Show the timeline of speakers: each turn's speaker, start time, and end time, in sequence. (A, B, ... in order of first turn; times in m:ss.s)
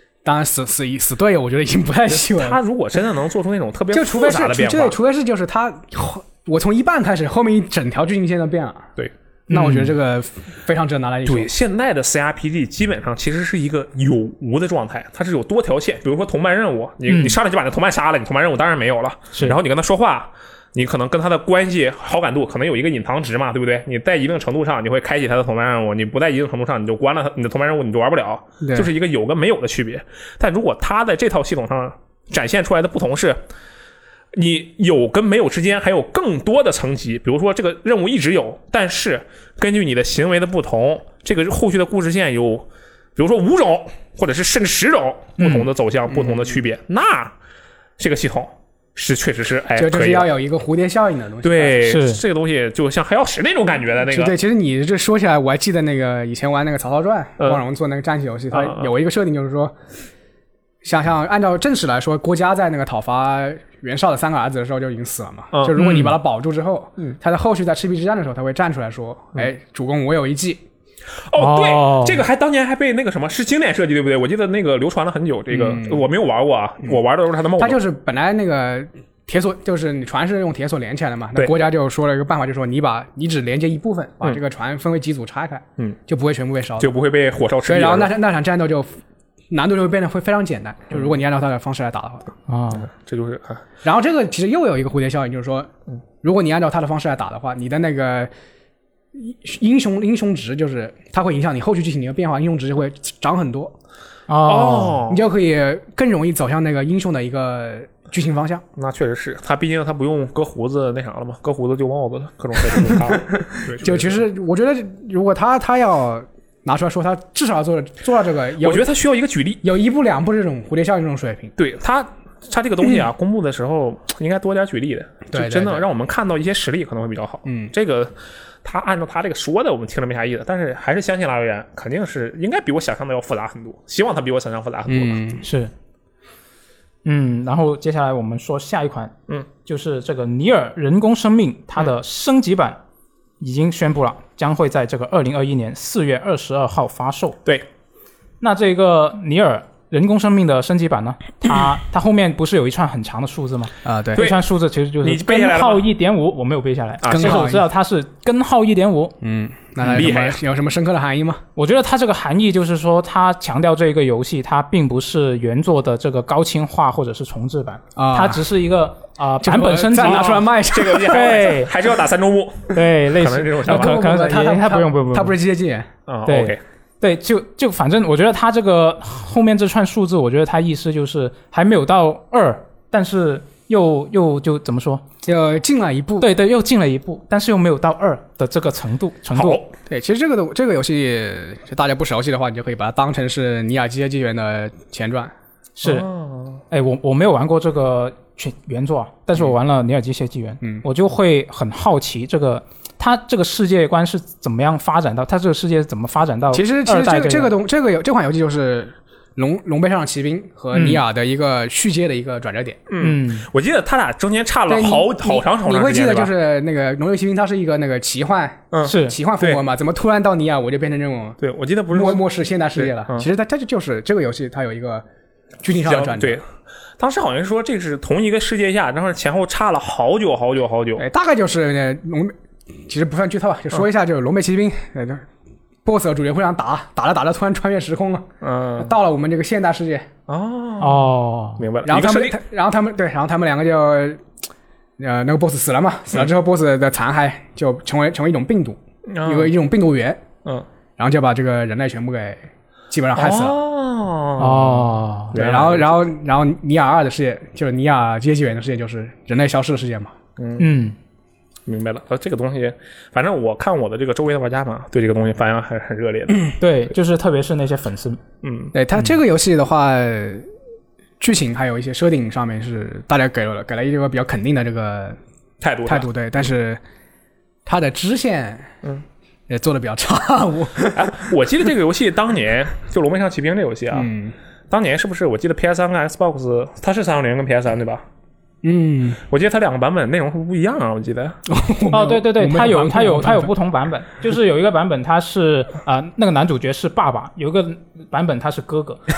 0:00.2-0:02.6 A
0:02.1-0:05.0 B
0:03.9-0:08.9 A
0:09.5-0:09.9 C
0:09.5-0:11.5 A
0:11.2-0:33.4 B
0:17.1-0:17.4 C
0:28.6-0:28.9 A
0:34.3-0:47.3 B
0:45.4-0:45.7 C
0:46.1-0:46.4 A
0:48.0-0:50.3 B
0:49.8-0:51.9 A
0:51.4-0:54.4 B
0:51.8-0:52.2 C
0:54.0-0:59.7 A
0:58.5-0:58.9 B
1:00.8-1:10.6 A
1:05.5-1:06.0 B
1:05.8-1:06.2 C
1:11.3-1:17.8 B
1:11.4-1:12.2 C
1:15.5-1:16.1 A
1:17.6-1:26.9 A
1:26.8-1:28.2 B
1:27.6-1:29.0 A
1:29.5-1:32.3 A
1:32.5-1:32.9 C
1:32.8-1:33.6 B
1:33.8-1:35.7 A
1:36.2-1:38.3 A
1:39.1-1:43.7 A
1:44.3-1:45.0 C
1:44.4-1:45.2 B
1:45.1-1:48.6 A
1:48.8-1:54.2 B
1:52.9-1:58.9 A
1:58.6-1:59.6 B
1:59.6-2:01.5 A
2:01.6-2:15.3 B
2:05.3-2:05.9 A
2:07.5-2:07.7 A
2:14.9-2:15.4 A
2:15.4-2:15.7 C
2:17.0-2:19.1 C
2:19.6-2:22.8 C
2:23.4-2:27.4 C
2:28.4-2:39.2 C
2:33.8-2:34.3 A
2:34.2-2:34.4 B
2:35.0-2:35.9 B
2:37.0-2:37.5 B
2:37.1-2:37.6 A
2:39.2-2:41.4 A
2:39.9-2:40.4 B
2:41.6-2:50.4 C
2:48.0-2:48.4 A
2:49.4-2:51.3 A
2:50.0-2:54.0 B
2:51.1-2:51.7 C
2:52.7-2:55.4 C
2:53.7-2:55.9 A
2:56.1-2:56.6 B
2:56.3-3:05.0 C
3:05.2-3:06.3 A
3:06.2-3:09.6 C
3:09.4-3:09.7 B
3:09.9-3:15.3 A
3:15.8-3:16.1 C
3:15.8-3:16.6 B
3:16.7-3:27.6 C
3:26.5-3:32.8 A
3:30.7-3:31.0 C
3:32.9-3:36.3 B
3:33.0-3:33.5 C
3:34.7-3:41.4 A
3:38.7-3:39.6 B
3:38.8-3:39.2 C
3:41.4-3:43.3 B
3:41.9-3:45.1 A
3:45.6-3:46.4 A
3:45.9-3:46.4 B
3:47.0-3:51.0 B
3:51.0-3:52.3 A
3:52.9-3:55.3 A
3:55.8-3:58.3 A
3:58.4-3:58.9 B
3:58.8-4:00.1 A
4:00.3-4:02.4 B
4:00.8-4:01.6 C
4:01.8-4:04.2 A
4:05.0-4:10.2 A
4:09.1-4:09.5 B
4:11.0-4:13.6 A
4:13.2-4:16.0 B
4:14.4-4:15.4 C
4:15.3-4:20.2 A
4:20.4-4:20.7 B
4:20.6-4:21.0 C
4:21.7-4:26.6 B
4:26.6-4:28.2 C
4:28.4-4:28.7 B
4:28.7-4:30.5 A
4:31.2-4:35.2 A
4:35.6-4:36.1 B
4:35.9-4:36.8 A
4:37.7-4:38.7 A
4:39.5-4:41.1 A
4:40.9-4:44.1 B
4:43.9-4:44.4 A
4:44.7-4:48.0 B
4:48.6-4:49.2 A
4:49.3-4:51.4 B
4:51.5-4:53.5 A
4:51.9-4:59.0 C